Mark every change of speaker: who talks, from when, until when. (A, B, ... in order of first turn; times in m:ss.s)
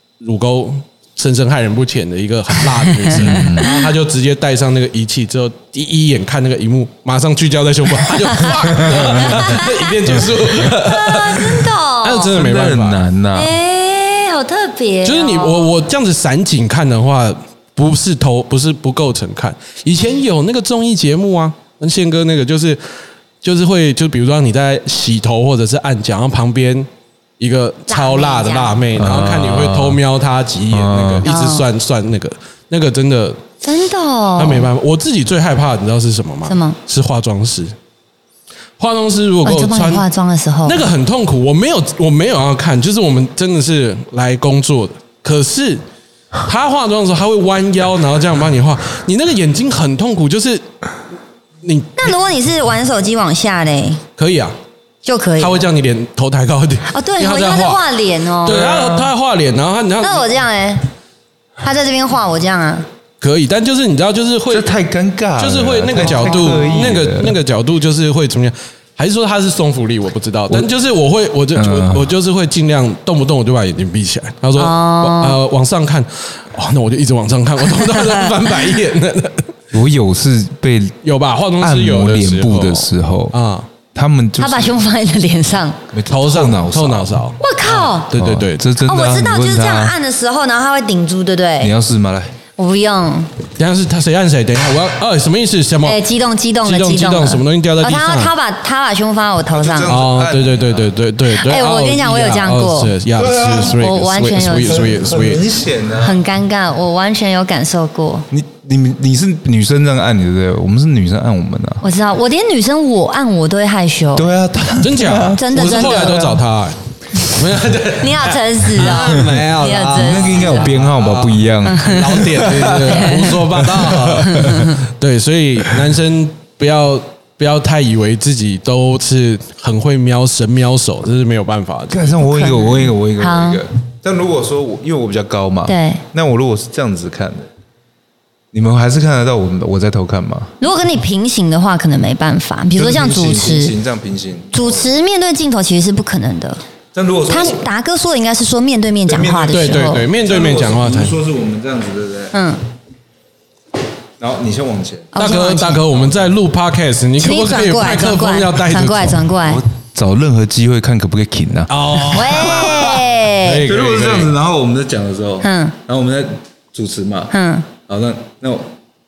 0:00.2-0:13.0 A
0:03.1-0:03.8 B
0:03.4-0:03.8 C
0:08.3-0:12.4 C
0:08.7-0:09.4 B
0:12.3-0:13.5 B
0:13.3-0:15.7 C
0:15.0-0:22.8 A
0:23.4-0:26.9 A
0:27.4-0:33.4 A
0:27.9-0:28.8 C
0:29.0-0:30.0 B
0:30.7-0:31.3 B
0:31.2-0:31.6 C
0:33.6-0:34.7 C
0:34.4-0:37.7 A
0:36.4-0:36.8 C
0:38.8-0:40.0 A
0:39.4-0:40.9 C
0:40.6-0:45.8 A
0:46.4-0:50.7 A
0:51.6-0:52.1 A
0:52.0-0:54.0 C
0:54.2-0:54.6 A
0:55.0-0:55.6 C
0:55.4-0:57.8 A
0:56.9-0:59.1 C
0:58.4-1:00.4 A
1:00.0-1:00.8 C
1:01.6-1:02.8 C
1:03.2-1:04.7 A
1:04.5-1:07.4 B
1:05.4-1:19.5 A
1:11.6-1:12.1 B
1:14.6-1:15.4 C
1:17.8-1:18.1 C
1:19.7-1:21.0 B
1:21.0-1:23.7 A
1:21.6-1:23.3 B
1:23.9-1:24.8 B
1:24.4-1:25.8 C
1:25.9-1:27.3 B
1:26.1-1:28.7 A
1:27.4-1:28.1 C
1:28.1-1:30.0 B
1:28.8-1:31.7 C
1:31.6-1:32.4 B
1:32.6-1:33.3 C
1:33.6-1:36.0 A
1:35.8-1:39.9 C
1:36.6-1:38.3 A
1:39.5-1:40.9 B
1:39.9-1:45.4 A
1:41.3-1:42.9 C
1:43.2-1:43.8 B
1:43.6-1:44.9 C
1:44.8-1:46.2 B
1:46.0-1:48.3 C
1:48.3-1:51.8 B
1:51.8-1:54.3 C
1:54.1-1:56.4 B
1:54.8-2:12.1 A
1:55.3-1:56.2 C
1:58.0-2:00.7 C
1:59.9-2:04.7 B
2:01.6-2:03.3 C
2:04.3-2:04.7 C
2:11.9-2:17.5 B
2:12.2-2:13.6 C
2:15.7-2:16.0 C
2:18.5-2:20.6 B
2:20.6-2:23.7 C
2:22.7-2:24.9 B
2:24.5-2:26.6 C
2:26.9-2:27.6 B
2:27.3-2:30.1 C
2:29.1-2:32.3 B
2:29.5-2:31.1 A
2:32.3-2:32.6 C
2:34.2-2:35.1 B
2:35.1-2:35.9 C
2:35.2-2:39.3 A
2:35.9-2:36.3 B
2:37.2-2:39.6 C
2:39.4-2:47.3 B
2:41.7-2:44.3 A
2:42.1-2:43.6 C
2:45.4-2:45.8 C
2:47.3-2:47.7 C
2:47.9-2:48.7 B